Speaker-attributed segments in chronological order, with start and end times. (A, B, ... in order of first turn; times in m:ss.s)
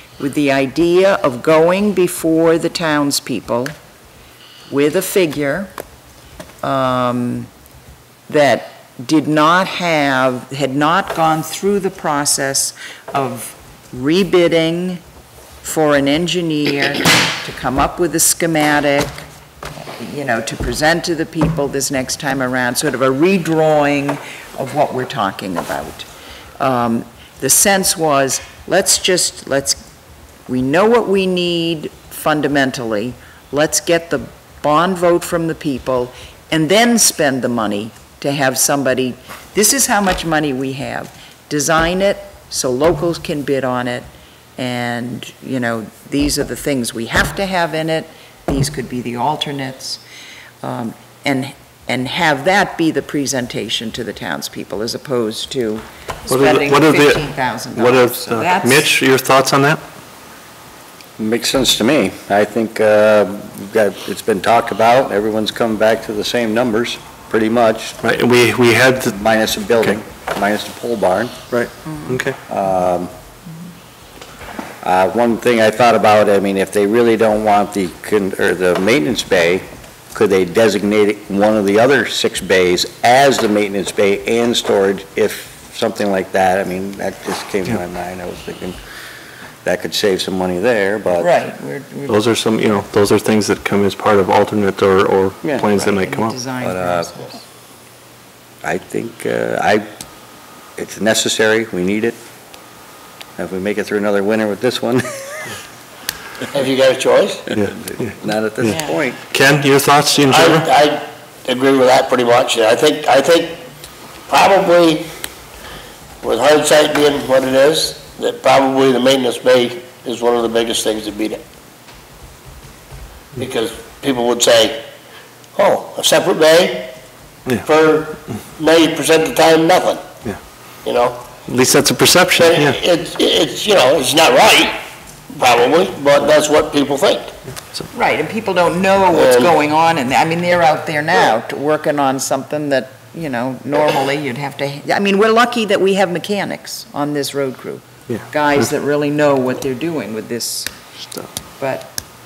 0:00.2-0:03.7 A
0:04.7-0:05.7 A
0:06.6-0:07.5 A
0:08.3-0:15.0 A
0:15.6-0:19.3 A
0:19.9-0:26.1 A
0:26.6-0:29.8 A
0:30.5-0:50.0 A
0:50.6-0:58.9 A
0:56.3-0:59.8 B
1:01.2-1:08.0 C
1:08.0-1:09.1 B
1:09.1-1:11.4 C
1:11.5-1:12.4 B
1:12.5-1:13.1 C
1:14.8-1:28.8 C
1:29.6-1:31.3 C
1:31.2-1:32.2 A
1:32.1-1:36.3 B
1:35.7-1:37.4 A
1:36.6-1:37.1 C
1:38.6-1:39.8 C
1:40.8-1:42.2 C
1:43.4-1:45.2 C
1:46.5-1:47.5 D
1:47.5-1:48.7 B
1:47.6-1:49.2 C
1:48.7-1:49.0 A
1:49.3-1:50.7 B
1:50.3-1:53.6 D
1:54.3-1:55.1 D
1:56.2-2:01.4 D
2:03.4-2:04.8 D
2:05.5-2:06.9 D
2:07.6-2:10.0 D
2:10.8-2:11.2 D
2:11.4-2:12.8 B
2:12.3-2:14.8 D
2:15.3-2:17.3 D
2:17.9-2:30.7 A
2:19.1-2:19.5 D
2:31.6-2:31.9 A